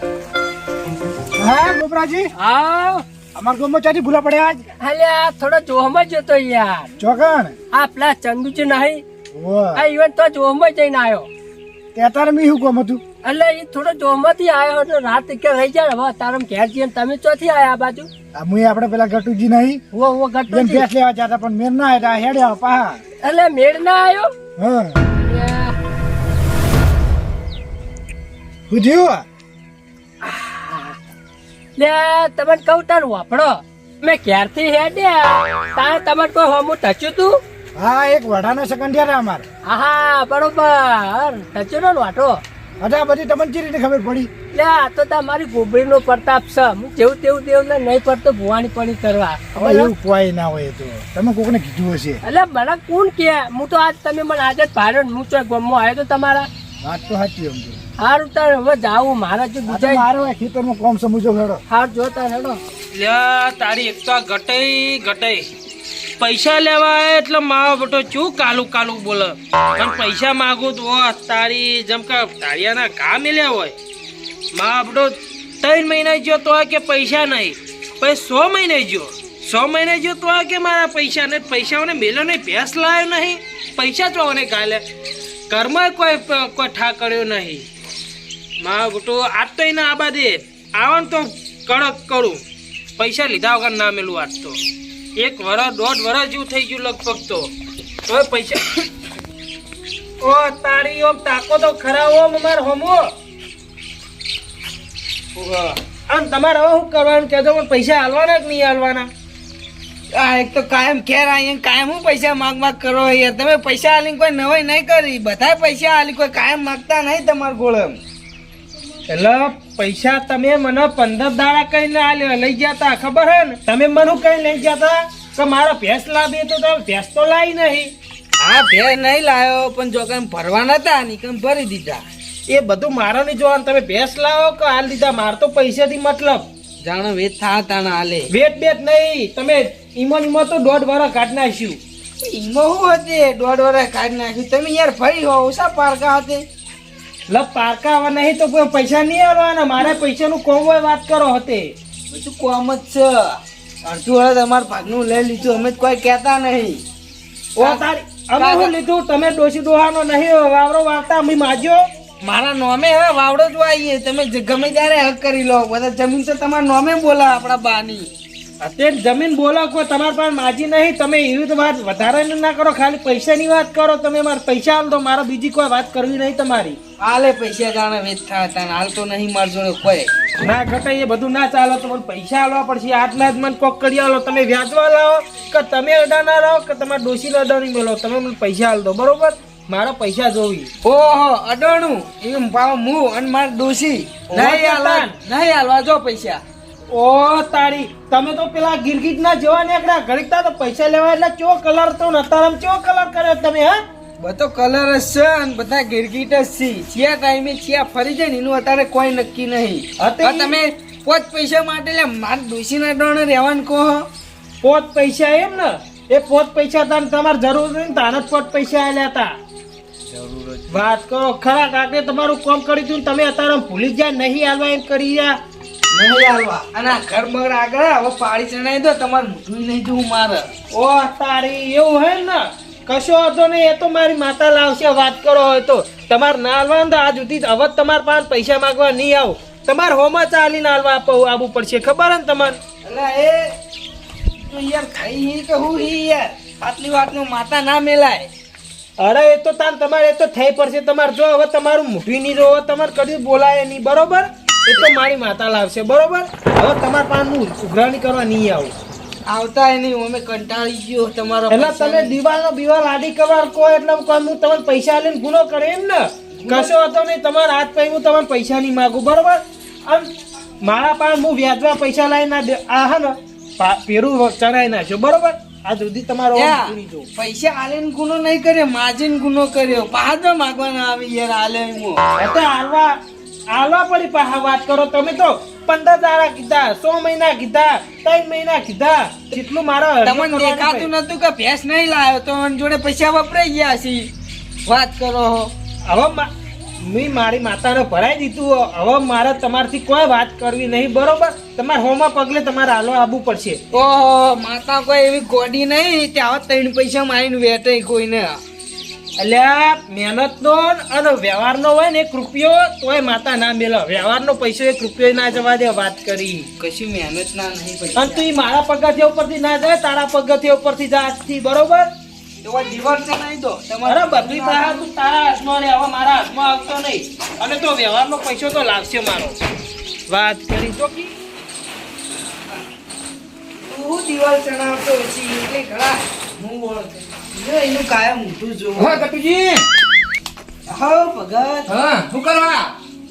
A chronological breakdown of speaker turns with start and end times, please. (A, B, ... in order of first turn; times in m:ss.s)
0:01.4-0:02.3 A
0:02.4-0:03.0 B
0:03.3-0:04.7 A
0:04.8-0:06.9 B
0:07.0-0:07.6 A
0:07.7-0:09.0 B
0:09.3-0:09.8 A
0:09.7-0:11.3 B
0:11.9-0:13.0 A
0:13.2-0:18.1 B
0:18.3-0:19.8 A
0:19.9-0:20.8 B
0:20.5-0:23.0 A
0:23.2-0:24.3 B
0:24.6-0:25.0 A
0:25.2-0:25.8 B
0:28.7-0:29.2 A
0:30.2-0:31.0 B
0:31.8-0:37.4 B
0:37.8-0:39.4 A
0:39.7-0:42.4 B
0:42.8-0:44.3 A
0:44.5-0:49.9 B
0:49.5-0:52.2 A
0:52.2-0:56.5 B
0:56.8-0:57.8 A
0:58.0-1:00.0 B
0:59.7-1:01.6 A
1:01.7-1:02.6 B
1:02.9-1:05.5 C
1:06.2-1:13.7 C
1:14.5-1:24.8 C
1:25.5-1:27.6 C
1:28.6-1:32.4 C
1:33.0-1:34.6 C
1:35.2-1:37.5 C
1:38.1-1:38.7 C
1:40.2-1:43.1 C
1:45.3-1:45.8 D
1:46.1-1:49.1 C
1:50.1-1:58.0 D
1:59.1-2:07.9 C
2:08.4-2:12.0 D
2:12.5-2:16.4 C
2:16.8-2:18.3 D
2:18.3-2:21.8 C
2:22.2-2:26.4 D
2:27.3-2:31.7 C
2:32.1-2:36.8 D
2:37.6-2:41.8 C
2:38.4-2:38.7 D
2:42.2-2:48.1 D
2:48.6-2:56.8 C
2:57.0-3:00.1 D
3:00.4-3:10.7 C
3:10.8-3:16.4 D
3:14.3-3:15.1 C
3:16.9-3:23.8 C
3:24.2-3:34.0 D
3:30.0-3:30.5 C
3:34.6-3:39.3 C
3:40.1-3:40.6 D
3:40.7-3:45.4 C
3:45.9-3:50.5 D
3:50.7-4:02.6 C
4:02.8-4:03.5 D
4:04.4-4:08.3 D
4:09.0-4:18.7 C
4:19.3-4:22.2 D
4:21.5-4:30.1 C
4:26.4-4:26.7 D
4:30.6-4:37.1 C
4:36.3-4:42.0 D
4:42.2-4:43.0 C
4:43.5-4:50.9 C
4:50.0-4:54.1 D
4:54.6-4:55.5 D
4:55.9-4:56.3 C
4:56.8-5:03.6 C
5:03.7-5:08.3 D
5:09.2-5:16.5 C
5:16.6-5:18.2 D
5:18.0-5:21.9 C
5:22.4-5:24.8 D
5:23.8-5:29.4 C
5:30.1-5:31.1 C
5:33.6-5:39.0 D
5:38.8-5:39.6 E
5:40.7-5:41.7 D
5:41.7-5:42.7 E